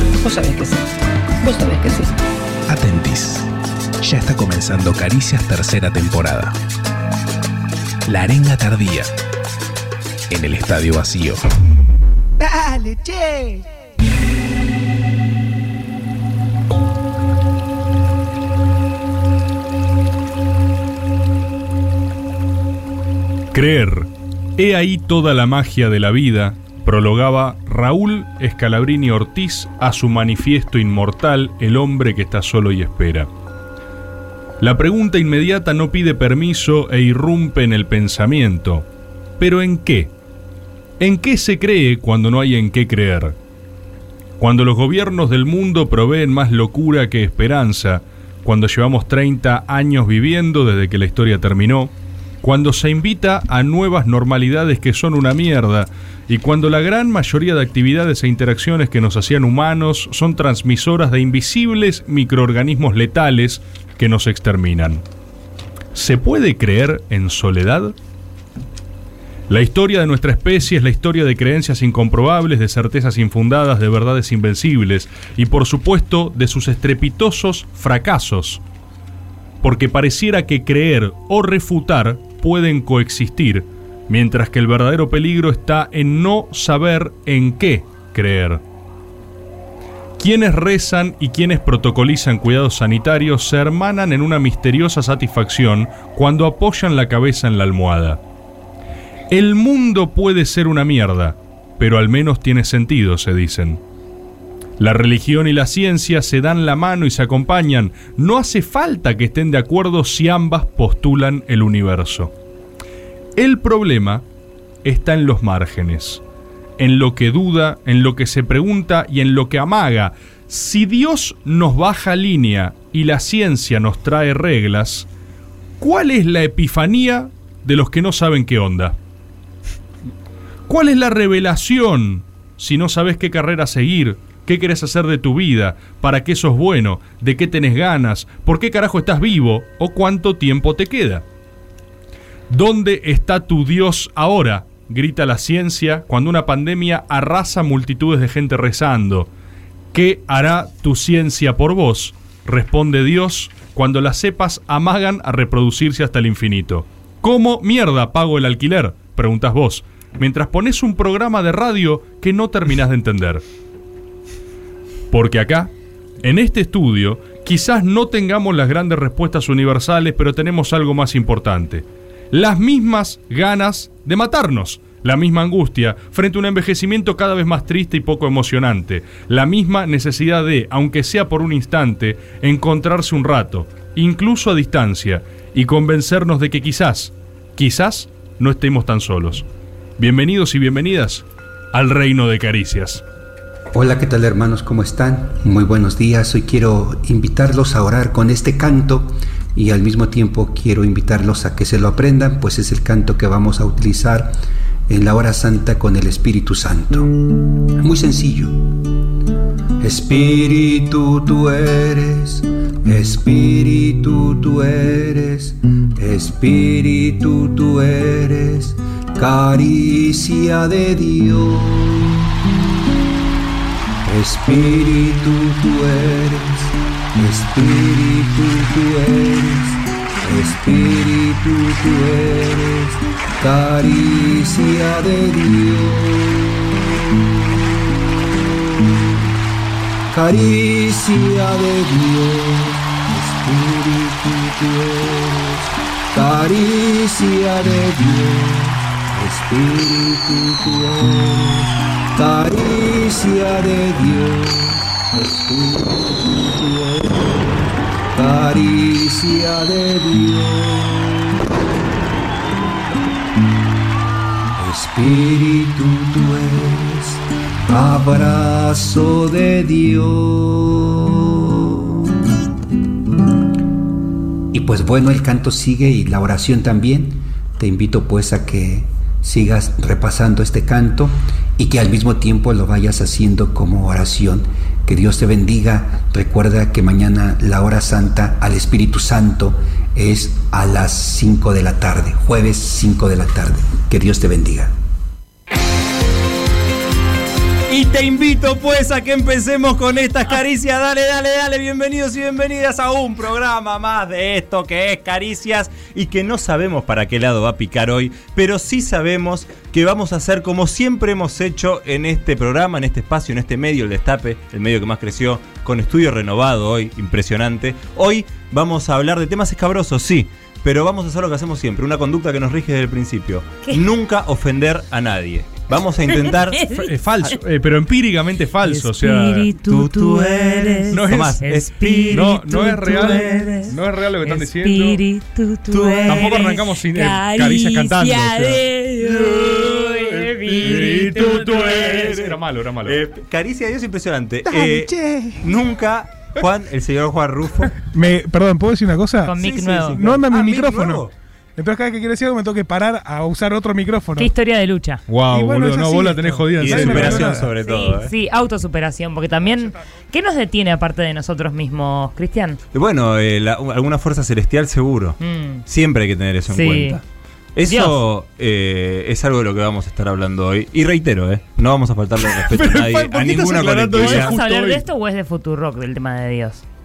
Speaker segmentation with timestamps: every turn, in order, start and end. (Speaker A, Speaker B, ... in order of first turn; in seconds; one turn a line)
Speaker A: 0.2-2.2
Speaker B: 2.7-3.5
Speaker B: 4.0-6.5
Speaker B: 8.1-9.1
Speaker B: 10.3-11.4
Speaker C: 12.5-13.4
Speaker D: 23.5-33.3
Speaker D: 34.6-38.8
Speaker D: 39.4-40.1
Speaker D: 41.0-43.3
Speaker D: 44.4-65.0
Speaker D: 65.9-67.9
Speaker D: 69.5-78.6
Speaker D: 79.6-88.6
Speaker D: 90.2-98.2
Speaker D: 99.3-103.8
Speaker D: 104.8-112.3
Speaker D: 113.3-114.2
Speaker D: 114.8-116.2
Speaker D: 116.8-125.0
Speaker D: 125.8-128.9
Speaker D: 130.7-141.2
Speaker D: 142.5-149.3
Speaker D: 149.9-163.4
Speaker D: 165.1-165.7
Speaker D: 166.2-189.4
Speaker D: 190.0-193.0
Speaker E: 193.7-204.3
Speaker E: 204.9-208.9
Speaker E: 209.8-222.3
Speaker E: 224.0-236.7
Speaker E: 238.9-239.3
Speaker E: 240.1-261.4
Speaker E: 264.6-272.1
Speaker E: 274.5-294.7
Speaker F: 297.7-327.3
Speaker G: 326.1-327.4
Speaker D: 326.7-329.5
Speaker G: 328.6-342.2
Speaker F: 329.7-333.6
Speaker D: 330.9-331.4
Speaker D: 332.1-335.0
Speaker F: 335.7-336.4
Speaker D: 336.1-343.0
Speaker F: 341.7-342.3
Speaker F: 342.8-347.7
Speaker C: 344.5-345.4
Speaker C: 347.9-349.4
Speaker G: 349.2-350.0
Speaker F: 349.4-351.1
Speaker C: 349.9-351.1
Speaker C: 351.6-354.3
Speaker G: 354.2-355.0
Speaker D: 355.1-357.4
Speaker C: 355.3-357.5
Speaker F: 356.6-358.1
Speaker G: 357.6-362.6
Speaker F: 362.7-367.0
Speaker G: 365.2-365.6
Speaker G: 366.5-367.0
Speaker F: 367.6-374.3
Speaker G: 367.7-368.0
Speaker D: 372.2-374.8
Speaker G: 373.9-376.6